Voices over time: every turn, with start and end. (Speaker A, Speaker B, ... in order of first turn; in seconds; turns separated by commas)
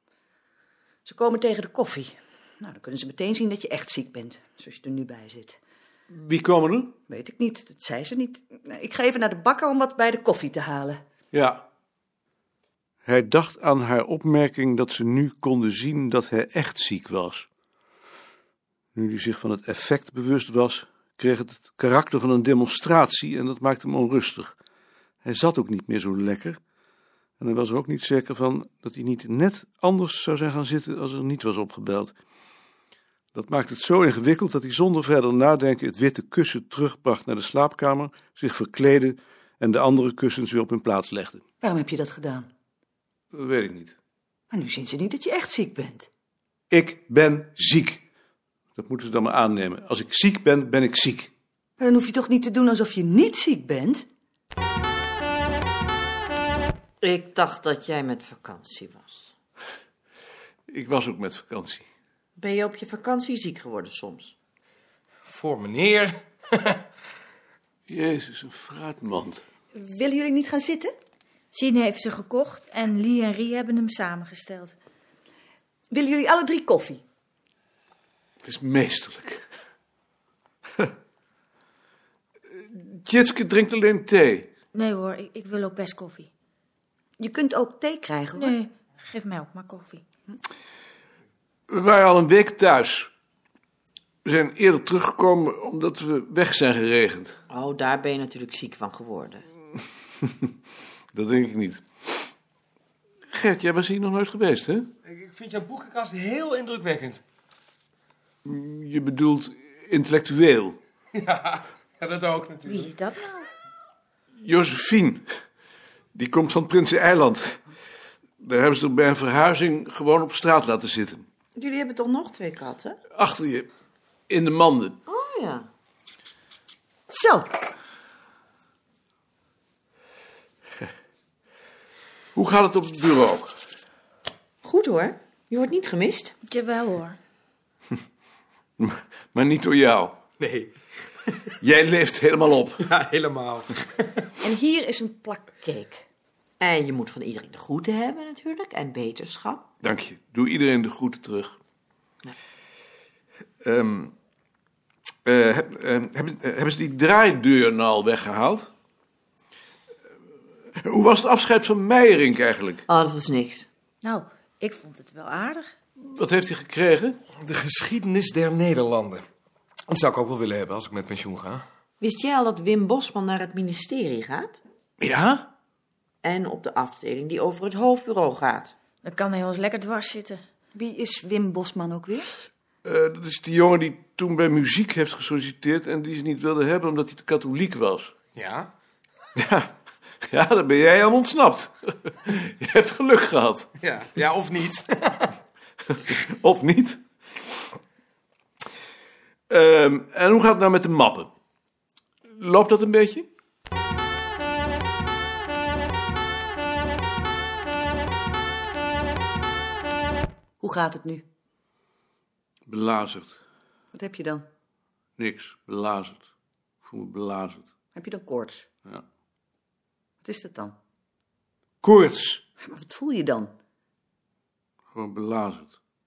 Speaker A: 1.0-5.6, Speaker B: 6.1-6.9, Speaker A: 7.1-11.0, Speaker B: 11.3-11.6, Speaker B: 13.0-17.5, Speaker B: 18.9-24.6, Speaker B: 25.2-26.6, Speaker B: 27.4-32.1, Speaker B: 33.3-41.4, Speaker A: 41.6-42.5, Speaker B: 43.3-44.0, Speaker A: 44.5-46.1, Speaker B: 46.7-48.0, Speaker B: 48.8-51.3, Speaker A: 51.8-54.0, Speaker C: 57.0-59.3, Speaker B: 60.7-61.9, Speaker C: 62.4-64.3, Speaker D: 65.2-66.8, Speaker B: 67.9-69.4, Speaker A: 69.7-70.9, Speaker E: 71.5-74.7, Speaker A: 75.9-77.0, Speaker B: 78.4-79.4, Speaker B: 82.6-84.5, Speaker E: 84.7-86.3, Speaker A: 87.2-88.6, Speaker E: 88.3-90.0, Speaker B: 91.7-93.1, Speaker B: 94.2-97.4, Speaker C: 97.5-99.4, Speaker B: 101.1-102.1, Speaker B: 103.3-104.9, Speaker D: 105.0-107.2, Speaker B: 108.4-110.8, Speaker D: 111.2-112.9, Speaker E: 112.7-113.5, Speaker B: 114.3-115.2, Speaker B: 116.1-117.6, Speaker B: 118.4-121.2, Speaker C: 121.6-123.0, Speaker B: 123.1-123.7, Speaker B: 124.3-125.0, Speaker C: 125.1-125.7, Speaker A: 127.1-127.5, Speaker B: 132.3-133.5, Speaker C: 134.6-136.3, Speaker E: 136.4-137.2, Speaker B: 138.8-140.2, Speaker D: 140.4-140.7, Speaker B: 141.6-142.8, Speaker D: 142.8-143.8, Speaker A: 144.4-146.0, Speaker C: 146.6-149.6, Speaker B: 149.8-151.6, Speaker B: 153.6-154.1, Speaker B: 155.2-158.7, Speaker B: 160.8-162.8, Speaker C: 162.9-163.7, Speaker E: 164.0-165.7, Speaker B: 166.0-167.2, Speaker D: 167.4-169.2, Speaker D: 169.9-171.6, Speaker C: 172.0-174.6, Speaker B: 175.0-175.5, Speaker C: 176.2-178.7, Speaker E: 179.0-180.4, Speaker A: 180.7-182.3, Speaker B: 182.8-188.1, Speaker D: 188.3-188.7, Speaker B: 189.4-189.7, Speaker B: 190.2-193.7, Speaker D: 193.8-195.3, Speaker B: 196.1-197.0, Speaker B: 199.5-201.3, Speaker B: 202.2-203.3, Speaker A: 210.6-211.2, Speaker B: 212.7-213.4, Speaker A: 213.9-214.4, Speaker B: 215.2-216.3, Speaker B: 216.8-217.7, Speaker A: 217.9-218.7, Speaker A: 220.2-220.8, Speaker B: 221.8-222.4, Speaker A: 222.6-223.5, Speaker B: 224.9-225.7